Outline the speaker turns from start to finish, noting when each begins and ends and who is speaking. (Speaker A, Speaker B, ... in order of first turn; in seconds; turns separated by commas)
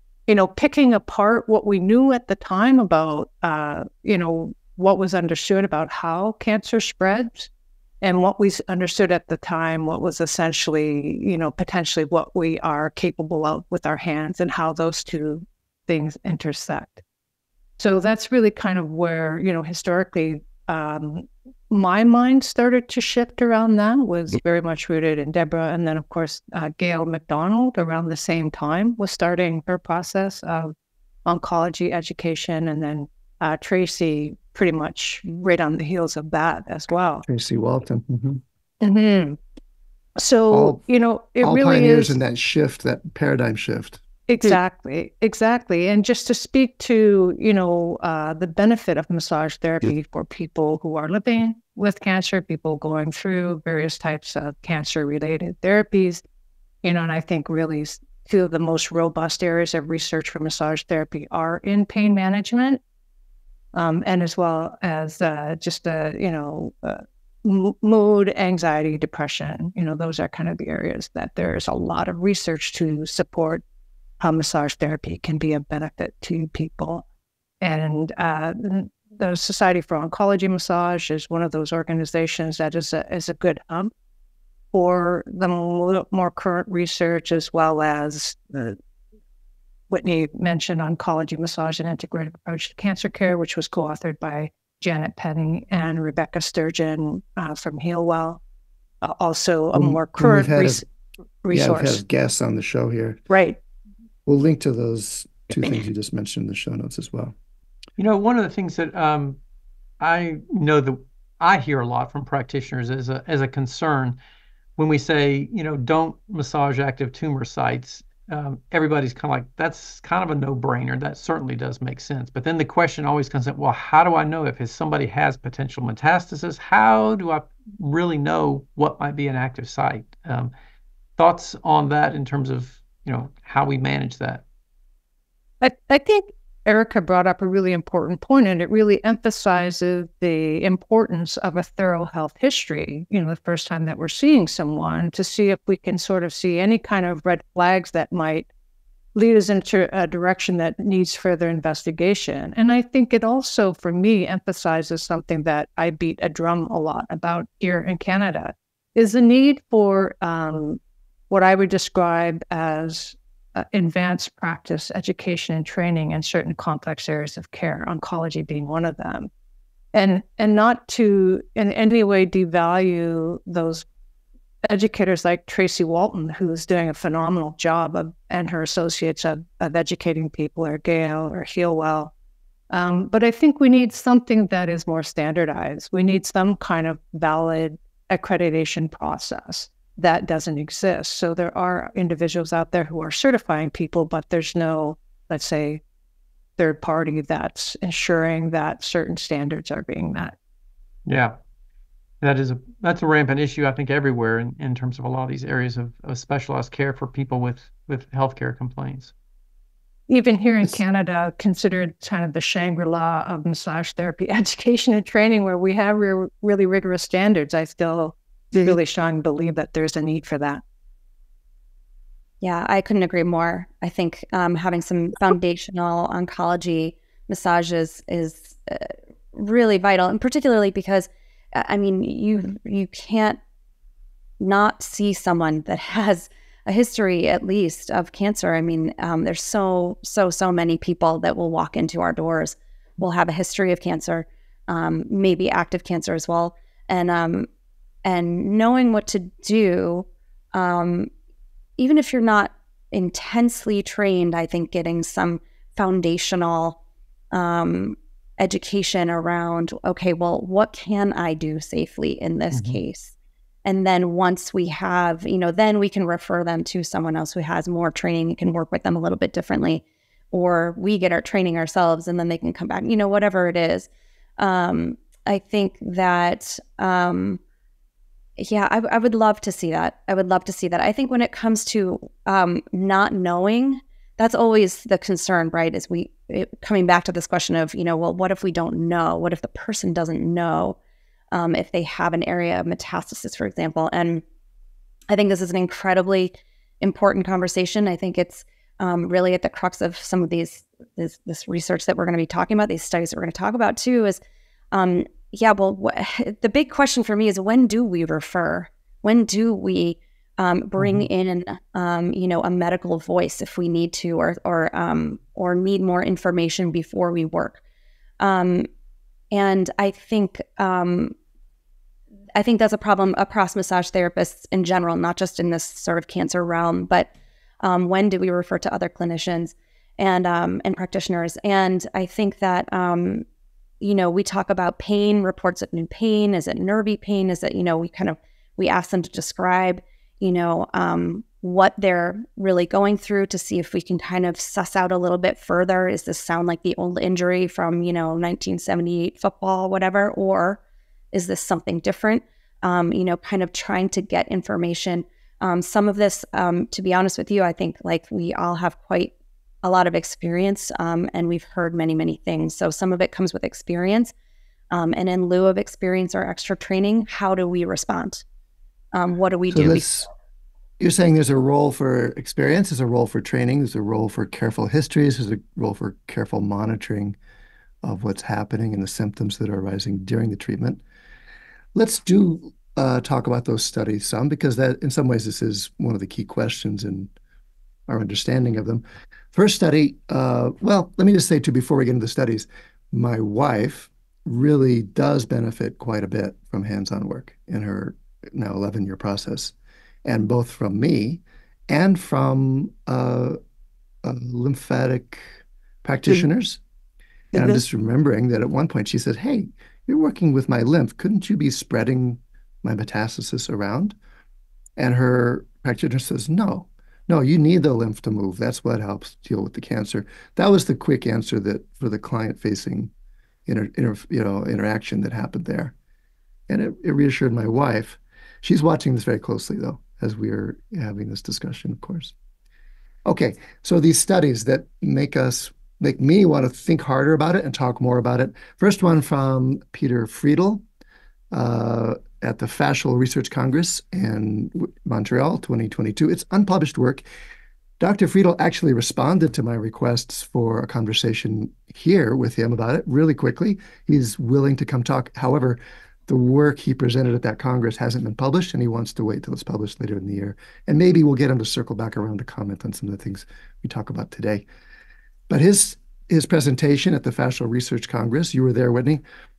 Speaker A: 0.3-7.5, Speaker A: 8.0-17.0, Speaker A: 17.8-30.7, Speaker A: 31.2-37.2, Speaker B: 37.2-38.4, Speaker A: 38.8-39.4, Speaker A: 40.1-42.2, Speaker B: 40.5-40.8, Speaker B: 41.4-44.0, Speaker A: 44.3-56.2, Speaker A: 56.8-62.8, Speaker A: 63.7-73.6, Speaker A: 74.2-77.0, Speaker A: 77.6-83.9, Speaker A: 84.7-88.8, Speaker A: 89.9-98.4, Speaker A: 99.0-100.8, Speaker B: 99.7-100.8, Speaker A: 101.4-102.0, Speaker B: 101.5-103.2, Speaker A: 103.3-103.6, Speaker B: 104.2-107.3, Speaker C: 108.0-109.4, Speaker C: 110.0-114.2, Speaker C: 114.8-130.5, Speaker C: 131.2-134.4, Speaker A: 135.6-148.5, Speaker A: 149.1-160.8, Speaker A: 161.3-169.3, Speaker A: 169.9-173.8, Speaker A: 174.6-182.1, Speaker A: 182.7-195.8, Speaker A: 196.6-200.3, Speaker C: 201.1-201.3, Speaker C: 202.2-209.1, Speaker A: 210.1-220.6, Speaker D: 222.4-233.4, Speaker D: 234.4-247.5, Speaker D: 248.0-251.1, Speaker D: 251.8-256.8, Speaker D: 257.3-263.1, Speaker C: 262.5-262.8, Speaker D: 263.6-277.4, Speaker D: 278.4-290.8, Speaker D: 291.3-294.2, Speaker D: 295.1-304.2, Speaker D: 304.7-317.6, Speaker C: 310.8-311.1, Speaker D: 318.2-318.7, Speaker D: 319.3-321.1, Speaker D: 322.3-327.1, Speaker D: 327.6-333.2, Speaker D: 333.8-350.6, Speaker D: 351.1-364.1, Speaker D: 364.7-368.2, Speaker D: 368.9-370.1, Speaker B: 369.5-370.1, Speaker B: 370.8-377.2, Speaker B: 377.8-380.8, Speaker B: 381.7-387.1, Speaker B: 387.9-388.8, Speaker B: 389.3-399.5, Speaker B: 400.0-403.4, Speaker B: 404.0-406.6, Speaker B: 407.3-413.9, Speaker B: 414.8-422.9, Speaker B: 423.4-425.7, Speaker B: 426.5-432.1, Speaker B: 433.1-440.6, Speaker B: 441.3-447.0, Speaker B: 447.8-464.4, Speaker B: 465.3-469.0